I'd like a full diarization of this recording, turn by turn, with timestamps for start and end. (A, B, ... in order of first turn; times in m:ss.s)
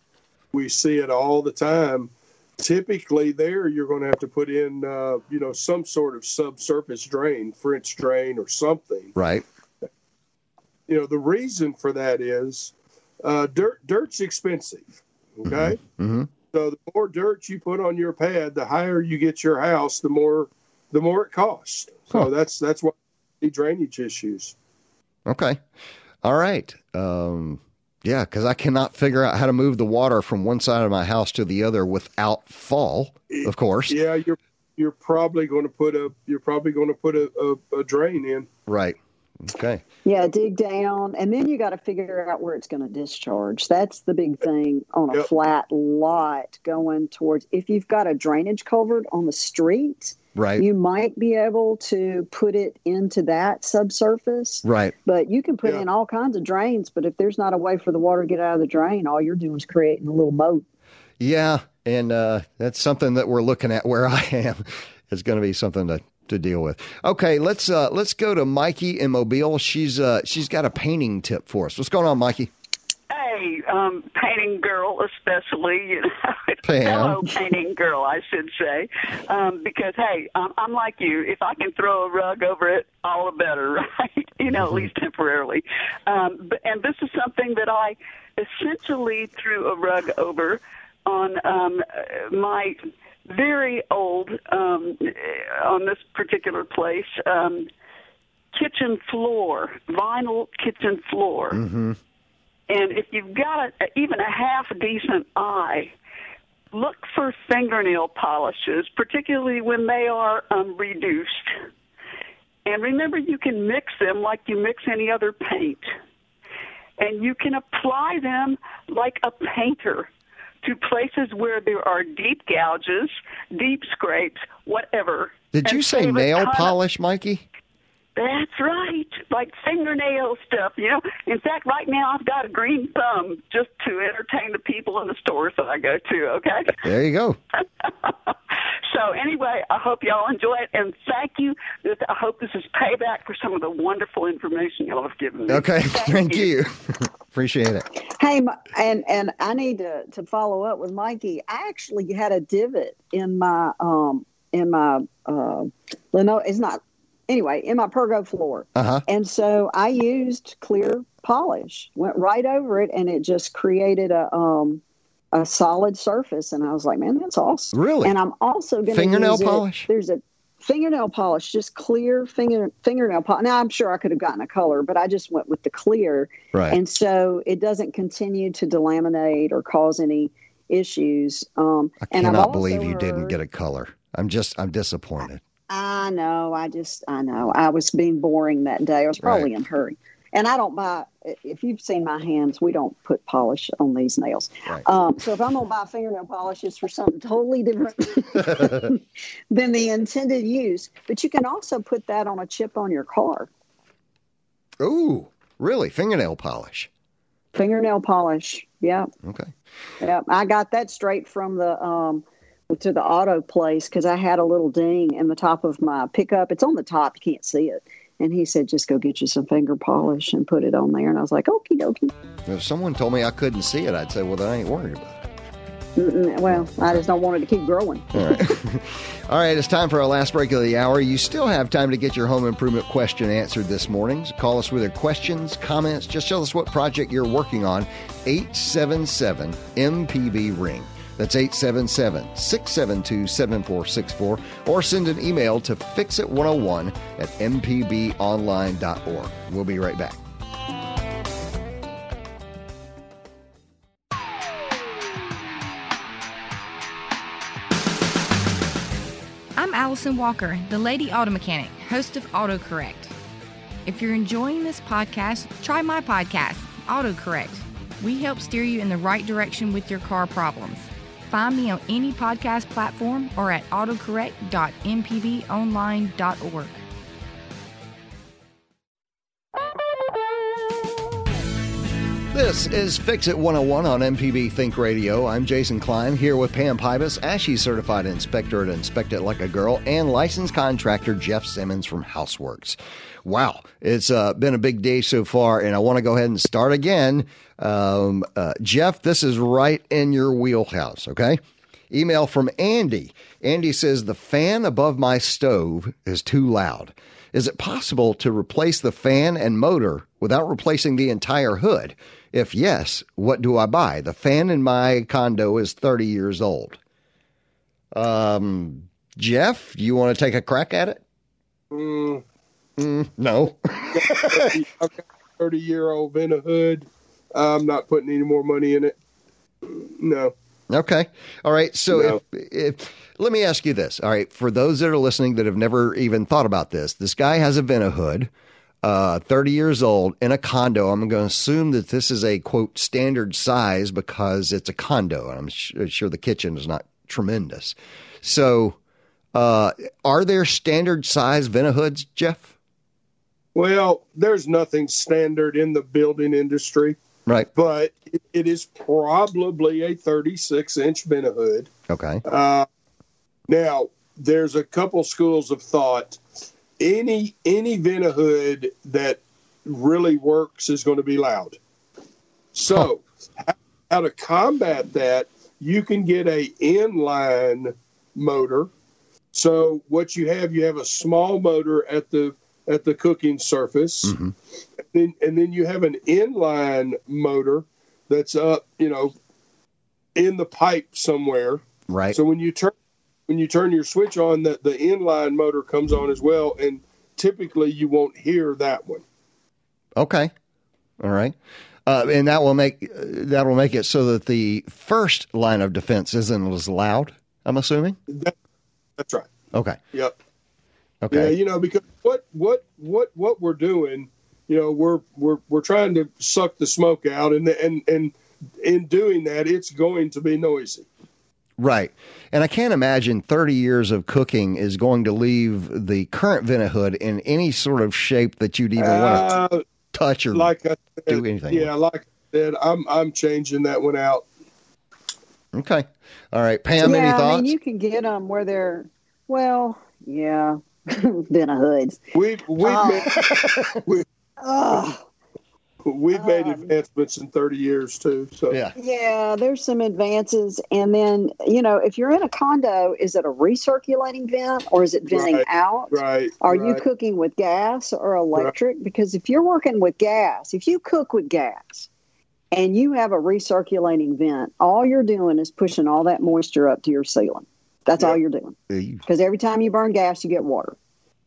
0:00.5-0:09.2 A
0:09.2-0:09.4 B
0:10.9-0:15.8 A
0:15.5-0:16.3 B
0:16.5-0:24.6 A
0:25.3-0:25.6 B
0:26.2-0:34.0 B
0:33.3-0:38.5 A
0:38.7-0:39.8 B
0:40.1-1:00.6 C
0:50.4-0:50.6 B
0:54.6-0:54.9 B
1:01.2-1:12.5 B
1:13.1-1:32.8 D
1:16.6-1:17.2 B
1:33.3-1:37.7 D
1:38.5-1:41.6 D
1:41.5-1:42.0 B
1:42.7-1:45.9 D
1:46.7-1:51.6 D
1:52.6-1:55.8 D
1:57.0-2:00.1 D
2:00.6-2:06.8 D
2:05.5-2:07.5 B
2:08.2-2:16.8 D
2:16.8-2:17.4 B
2:17.8-2:18.3 D
2:18.9-2:26.5 D
2:25.5-2:27.9 B
2:28.1-2:44.8 C
2:38.8-2:39.0 B
2:45.3-3:03.4 C
2:47.7-2:48.2 B
2:48.9-2:49.9 B
3:02.1-3:05.4 B
3:05.7-3:23.5 C
3:09.2-3:09.5 B
3:18.4-3:18.9 B
3:24.8-3:26.9 B
3:27.5-3:29.1 C
3:29.2-3:29.5 B
3:30.0-3:42.1 C
3:42.5-3:45.2 B
3:46.0-3:48.4 C
3:46.5-3:47.0 B
3:48.1-4:10.2 B
4:19.6-4:23.1 E
4:23.9-4:36.8 E
4:42.3-5:01.4 B
5:01.9-5:16.8 B
5:17.9-5:21.0 B
5:21.7-5:22.2 A
5:22.8-5:24.6 B
5:23.9-5:29.0 A
5:29.6-5:30.3 A
5:30.7-5:38.3 B
5:31.9-5:32.2 A
5:38.8-5:48.8 B
5:49.3-5:52.6 B
5:53.6-5:57.0 A
5:57.6-6:01.7 A
6:01.9-6:02.2 B
6:02.3-6:02.7 A
6:03.5-6:06.2 A
6:06.8-6:11.6 A
6:12.5-6:18.7 A
6:19.3-6:24.2 A
6:24.0-6:24.3 B
6:24.8-6:29.1 A
6:30.2-6:32.7 A
6:31.9-6:32.2 B
6:33.3-6:39.0 A
6:40.0-6:40.3 B
6:41.0-6:48.0 B
6:48.1-6:48.3 A
6:49.0-6:49.3 A
6:49.5-6:49.8 B
6:51.0-6:51.4 B
6:51.1-7:00.9 A
7:01.6-7:09.4 B
7:08.8-7:09.6 A
7:09.9-7:10.5 B
7:10.3-7:14.3 A
7:11.1-7:11.7 B
7:15.5-7:17.5 B
7:16.8-7:22.0 C
7:22.1-7:23.2 A
7:22.6-7:23.1 C
7:23.1-7:23.8 B
7:24.4-7:25.0 C
7:25.8-7:28.6 A
7:26.1-7:26.7 C
7:28.5-7:28.8 B
7:28.8-7:41.9 C
7:35.1-7:36.8 A
7:42.5-7:50.8 C
7:48.7-7:49.0 B